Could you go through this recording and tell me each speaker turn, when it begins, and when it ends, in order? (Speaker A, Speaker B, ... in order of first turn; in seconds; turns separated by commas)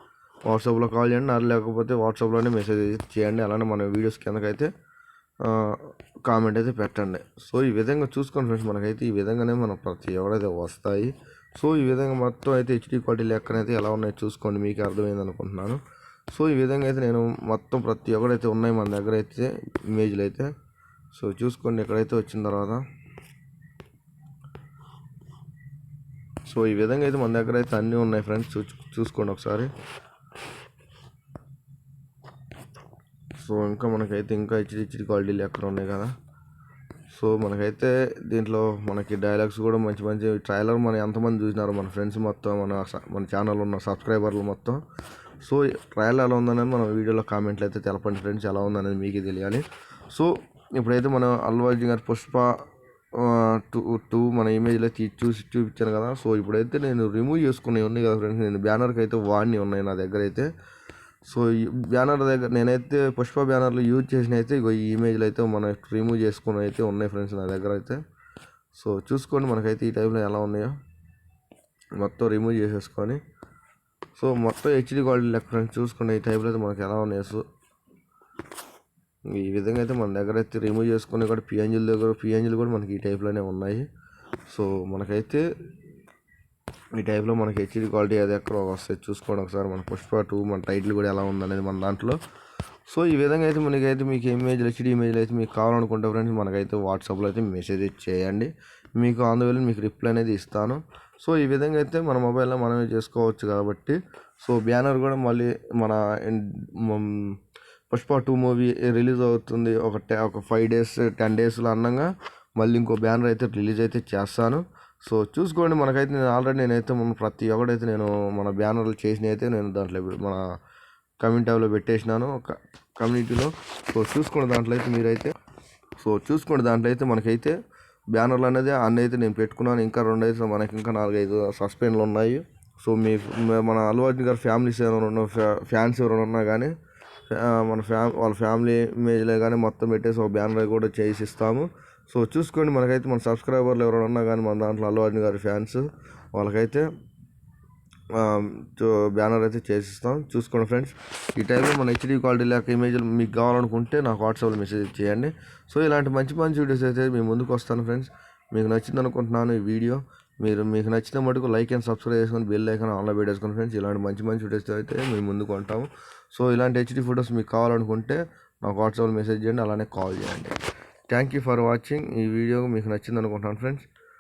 Speaker A: 0.5-4.7, Speaker A: 5.4-15.8, Speaker A: 16.3-20.5, Speaker A: 21.1-22.8, Speaker A: 26.4-29.7, Speaker A: 33.4-36.1, Speaker A: 37.1-44.8, Speaker A: 45.4-60.5, Speaker A: 61.3-68.0, Speaker A: 68.7-70.8, Speaker A: 72.0-73.2, Speaker A: 74.2-77.5, Speaker A: 79.3-83.9, Speaker A: 84.5-85.5, Speaker A: 87.0-92.2, Speaker A: 92.9-107.4, Speaker A: 107.9-120.4, Speaker A: 121.2-125.3, Speaker A: 126.0-127.6, Speaker A: 128.1-136.8, Speaker A: 137.3-146.9, Speaker A: 148.1-170.6, Speaker A: 171.1-173.9